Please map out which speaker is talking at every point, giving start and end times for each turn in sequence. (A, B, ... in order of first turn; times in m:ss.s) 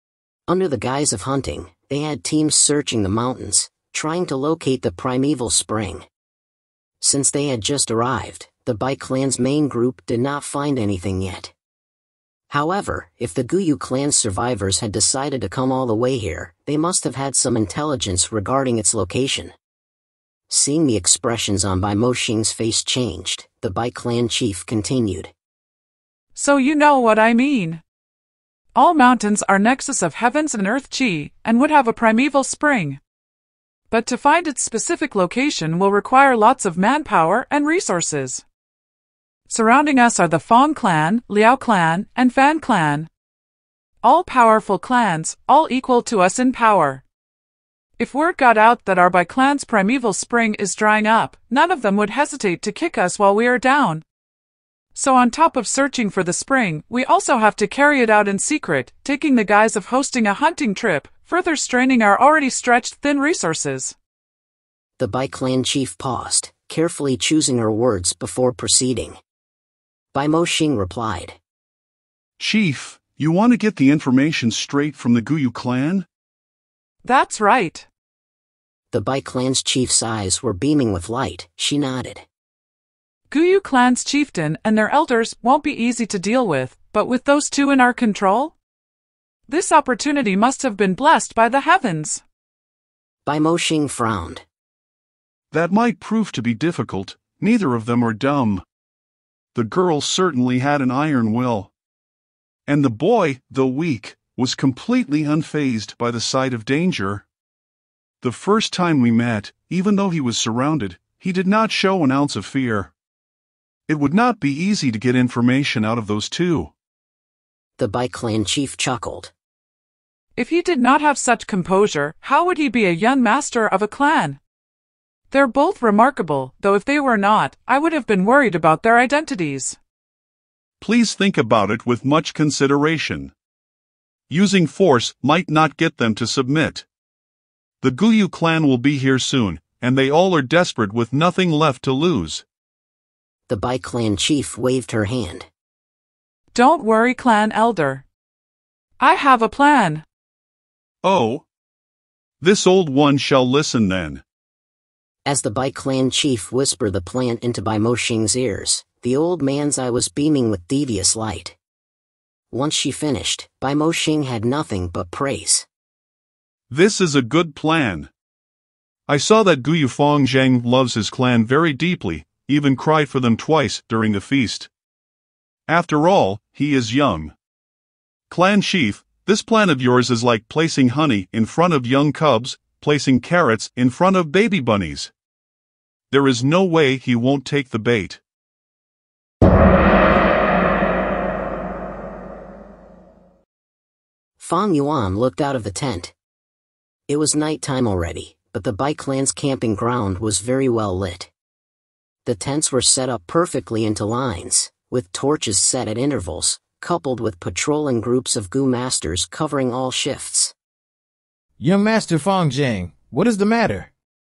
0:00.5-0:06.0 A
0:07.0-0:11.5 A
0:12.5-0:19.5 A
0:20.5-0:25.3 A
0:26.4-0:27.8 B
0:28.7-0:33.0 B
0:33.9-0:38.4 B
0:39.5-0:43.1 B
0:44.0-0:47.0 B
0:48.0-0:54.0 B
0:54.9-1:03.9 B
1:05.0-1:09.2 A
1:10.1-1:11.4 A
1:12.4-1:16.0 C
1:17.0-1:17.8 B
1:18.9-1:22.2 A
1:23.3-1:28.5 B
1:29.5-1:32.2 B
1:33.2-1:34.4 A
1:35.5-1:38.6 C
1:39.5-1:41.7 C
1:42.7-1:47.2 C
1:48.2-1:52.9 C
1:53.9-1:56.7 C
1:57.8-1:59.3 A
2:00.4-2:04.4 B
2:05.3-2:09.8 B
2:10.8-2:13.3 C
2:14.3-2:16.8 C
2:17.8-2:22.4 C
2:23.5-2:25.5 A
2:26.5-2:28.0 B
2:29.0-2:30.0 B
2:31.0-2:31.4 C
2:32.4-2:34.2 C
2:35.2-2:41.6 A
2:42.5-2:45.6 A
2:46.7-2:48.1 C
2:49.1-2:54.7 C
2:55.7-2:57.3 C
2:58.3-3:05.1 C
3:06.1-3:08.2 C
3:14.4-3:16.1 A
3:17.1-3:21.3 A
3:22.2-3:30.5 A
3:31.6-3:33.9 D